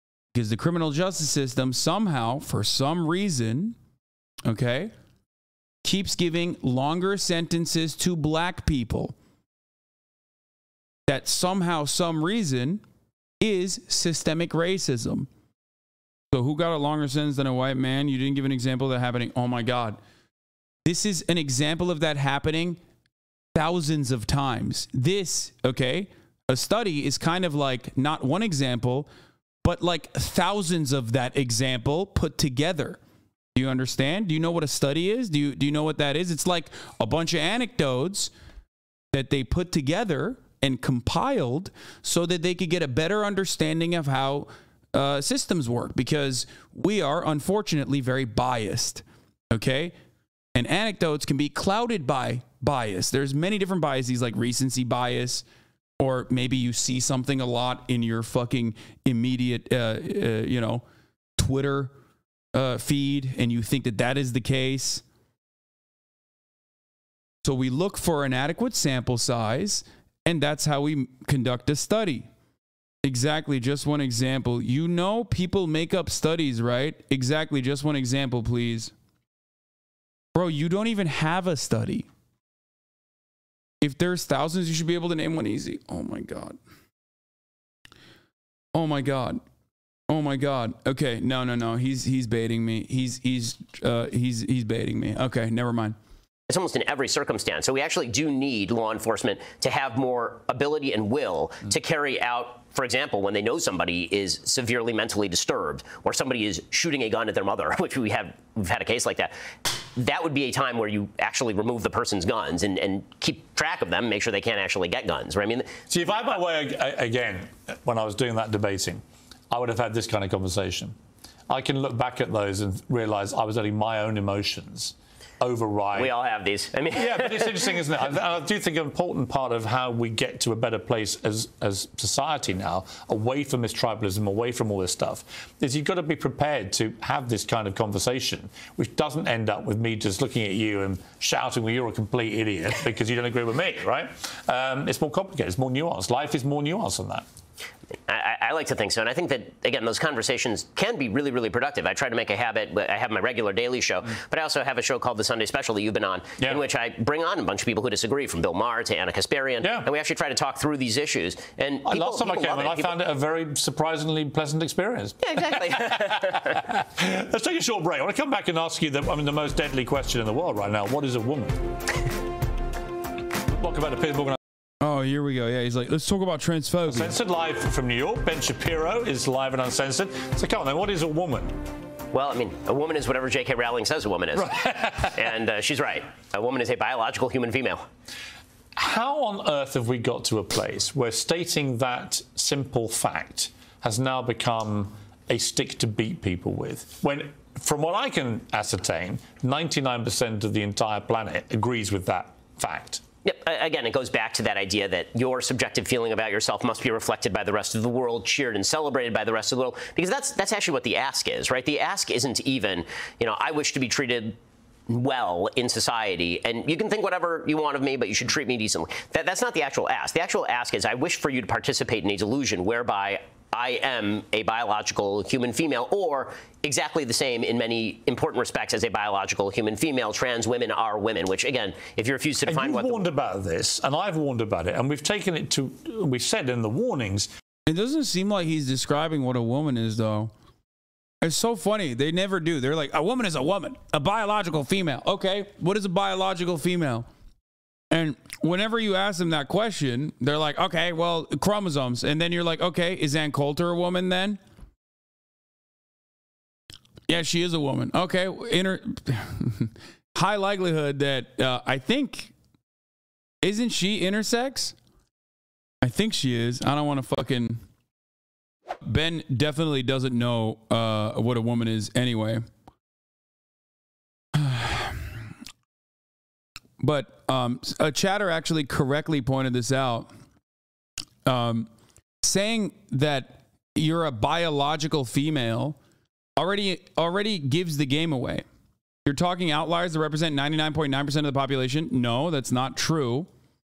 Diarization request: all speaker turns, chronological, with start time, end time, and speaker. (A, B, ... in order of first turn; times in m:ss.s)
0:00.3-0:03.8 A
0:04.4-0:04.9 A
0:05.8-0:09.2 A
0:11.1-0:12.8 A
0:13.4-0:15.3 A
0:16.3-0:20.0 A
0:20.8-0:22.8 A
0:23.6-0:29.1 A
0:29.6-0:33.0 A
0:33.6-0:38.3 A
0:39.1-0:50.0 A
0:50.6-0:55.4 A
0:56.0-1:00.8 A
1:01.4-1:01.9 A
1:02.5-1:05.0 A
1:07.4-1:12.3 A
1:13.0-1:18.9 A
1:20.4-1:22.1 A
1:23.8-1:26.6 A
1:28.7-1:29.4 A
1:30.1-1:36.0 A
1:36.5-1:55.8 B
1:55.9-2:01.0 C
2:01.5-2:06.1 C
2:06.0-2:07.7 B
2:06.9-2:27.3 C
2:28.1-2:42.9 B
2:39.6-2:39.9 C
2:41.8-2:51.9 C
2:45.2-2:46.6 B
2:53.4-2:54.4 C
2:54.8-2:57.2 A
2:56.9-3:01.6 C
3:02.1-3:07.9 B
3:04.4-3:05.3 C
3:08.8-3:23.0 C
3:23.2-3:34.4 B
3:34.9-3:53.1 B
3:52.5-3:57.3 C
3:57.7-4:00.3 A
4:01.2-4:07.1 A
4:07.9-4:14.4 A
4:17.1-4:22.3 A
4:23.4-4:24.8 A
4:25.8-4:27.6 A
4:28.8-4:32.4 A
4:34.3-4:35.3 A
4:36.8-4:40.1 A
4:41.2-4:41.7 A
4:42.2-4:45.8 A
4:46.4-4:48.4 A
4:49.1-4:53.3 A